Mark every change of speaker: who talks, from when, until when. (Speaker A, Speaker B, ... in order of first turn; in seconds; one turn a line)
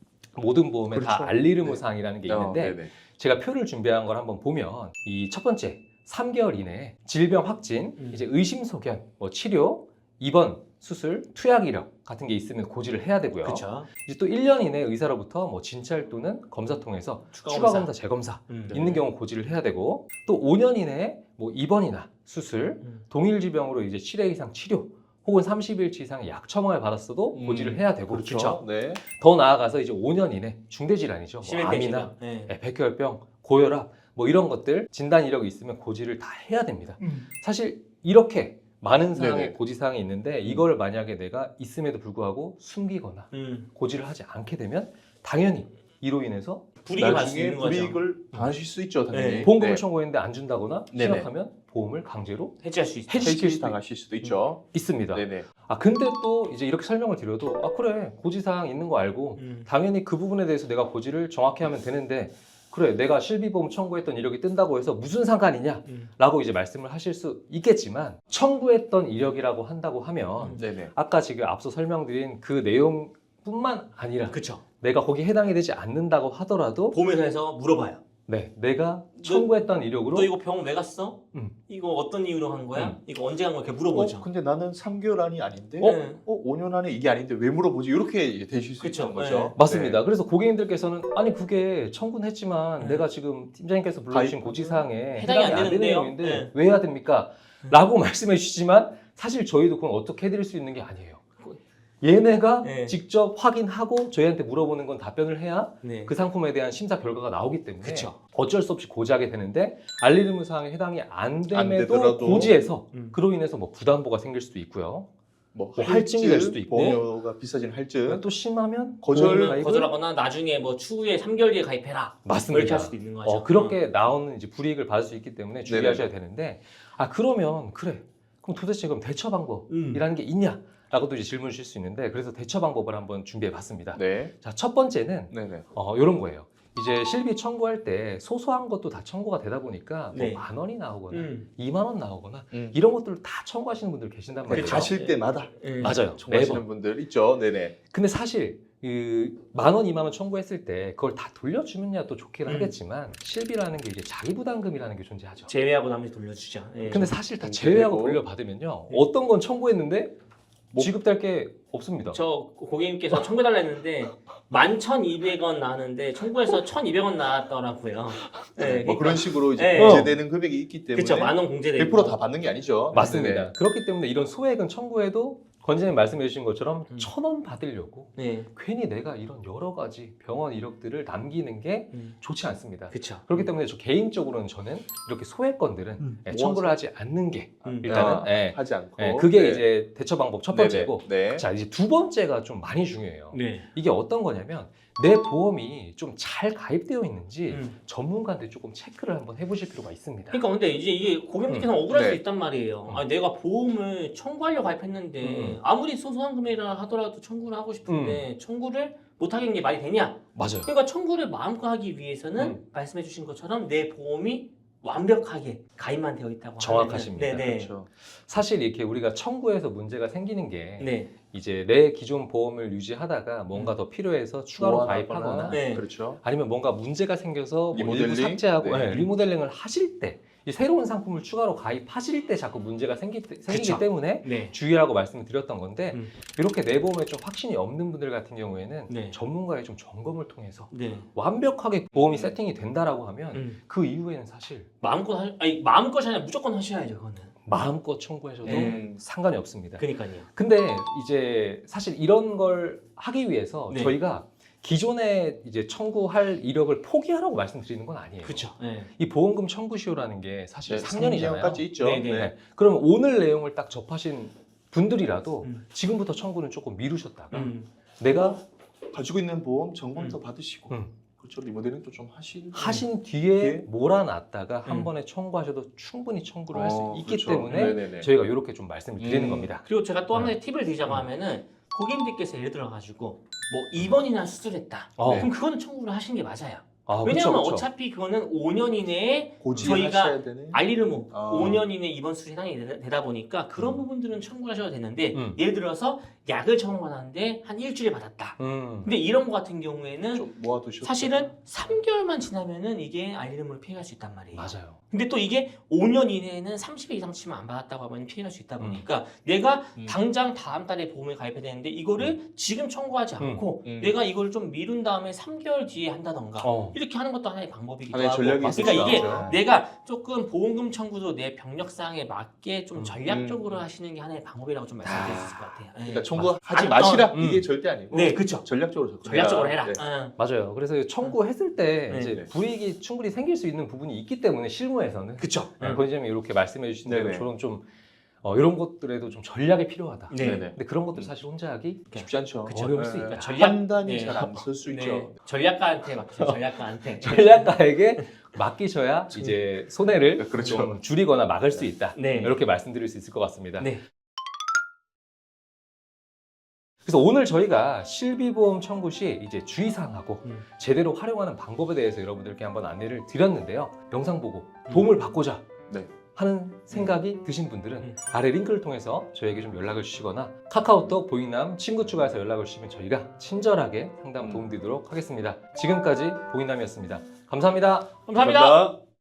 Speaker A: 0.3-46.6
Speaker B: 0.9-2.9
Speaker C: 8.0-8.2
Speaker C: 13.4-13.9
Speaker C: 17.3-17.9
Speaker C: 18.5-19.0
Speaker B: 27.3-29.0
Speaker C: 31.4-32.5
Speaker B: 39.1-39.5
Speaker C: 43.3-43.7
Speaker C: 46.8-48.5
Speaker B: 47.0-49.8
Speaker C: 49.1-49.5
Speaker A: 49.4-53.8
Speaker B: 50.9-51.3
Speaker C: 52.6-53.3
Speaker B: 53.2-55.5
Speaker A: 54.7-77.0
Speaker C: 59.4-59.7
Speaker C: 65.8-66.1
Speaker B: 70.5-70.9
Speaker C: 74.3-74.6
Speaker C: 76.9-78.0
Speaker A: 78.3-80.3
Speaker C: 79.2-84.3
Speaker B: 83.9-90.0
Speaker C: 85.8-86.2
Speaker C: 88.8-89.6
Speaker A: 89.5-101.2
Speaker C: 92.8-93.1
Speaker B: 94.1-94.8
Speaker C: 95.1-96.5
Speaker A: 102.0-115.1
Speaker C: 102.6-103.0
Speaker C: 105.8-106.1
Speaker C: 107.8-108.2
Speaker B: 111.5-112.5
Speaker B: 115.5-118.2
Speaker A: 115.8-117.0
Speaker A: 118.0-119.9
Speaker B: 119.0-119.6
Speaker C: 119.1-123.8
Speaker A: 122.2-144.9
Speaker B: 125.7-126.0
Speaker C: 129.7-130.0
Speaker B: 133.9-134.3
Speaker B: 135.3-135.7
Speaker C: 140.1-141.5
Speaker C: 144.5-146.0
Speaker B: 144.5-147.8
Speaker A: 145.8-146.6
Speaker A: 147.9-155.5
Speaker C: 152.4-152.7
Speaker C: 155.5-157.1
Speaker A: 156.8-160.1
Speaker B: 157.4-158.2
Speaker A: 160.7-162.2
Speaker C: 162.1-170.1
Speaker B: 168.6-173.5
Speaker A: 169.8-170.1
Speaker C: 170.9-172.2
Speaker C: 172.9-173.2
Speaker A: 172.9-200.4
Speaker C: 178.2-178.5
Speaker C: 182.9-183.5
Speaker B: 186.2-186.7
Speaker C: 187.6-188.2
Speaker B: 187.8-189.7
Speaker B: 190.5-191.5
Speaker C: 193.3-193.7
Speaker C: 197.5-197.8
Speaker C: 200.3-217.7
Speaker B: 201.9-202.2
Speaker A: 205.2-205.6
Speaker A: 207.9-208.2
Speaker A: 210.3-210.7
Speaker A: 216.6-217.5
Speaker B: 217.3-217.9
Speaker A: 218.1-244.7
Speaker C: 220.8-221.1
Speaker B: 224.6-226.2
Speaker C: 225.5-225.8
Speaker B: 227.7-229.1
Speaker C: 233.5-234.5
Speaker C: 238.9-239.2
Speaker C: 240.7-241.1
Speaker C: 243.3-243.6
Speaker C: 244.8-247.4
Speaker A: 247.4-268.4
Speaker C: 248.4-248.8
Speaker B: 248.4-249.0
Speaker C: 249.8-250.3
Speaker C: 253.7-254.0
Speaker C: 258.2-258.9
Speaker B: 260.7-262.3
Speaker C: 261.8-262.3
Speaker C: 267.3-267.7
Speaker B: 268.9-273.6
Speaker A: 272.5-280.4
Speaker C: 274.6-274.9
Speaker B: 276.5-278.1
Speaker C: 277.5-277.8
Speaker B: 279.0-279.5
Speaker C: 279.6-327.1
Speaker A: 285.0-285.3
Speaker A: 286.9-287.7
Speaker B: 289.4-291.6
Speaker A: 289.5-289.8
Speaker A: 295.1-295.4
Speaker A: 298.4-298.9
Speaker B: 300.1-301.3
Speaker A: 304.3-304.8
Speaker A: 308.6-308.8
Speaker A: 313.2-313.4
Speaker B: 313.6-313.9
Speaker A: 316.4-316.8
Speaker B: 317.9-319.4
Speaker A: 318.4-319.3
Speaker B: 323.1-323.4
Speaker A: 324.8-325.4
Speaker B: 325.9-329.8
Speaker A: 327.1-327.5
Speaker C: 327.9-328.5
Speaker C: 329.0-330.2
Speaker A: 330.2-337.6
Speaker C: 331.9-332.2
Speaker C: 335.2-335.8
Speaker B: 336.8-337.3
Speaker A: 338.2-341.9
Speaker C: 340.1-340.5
Speaker B: 340.2-341.1
Speaker C: 341.9-347.7
Speaker B: 341.9-345.2
Speaker A: 342.5-343.3
Speaker A: 346.9-353.7
Speaker B: 350.2-350.8
Speaker C: 351.9-352.4
Speaker C: 353.6-353.8
Speaker A: 356.8-365.4
Speaker A: 366.1-378.0
Speaker C: 378.1-378.7
Speaker B: 378.2-378.8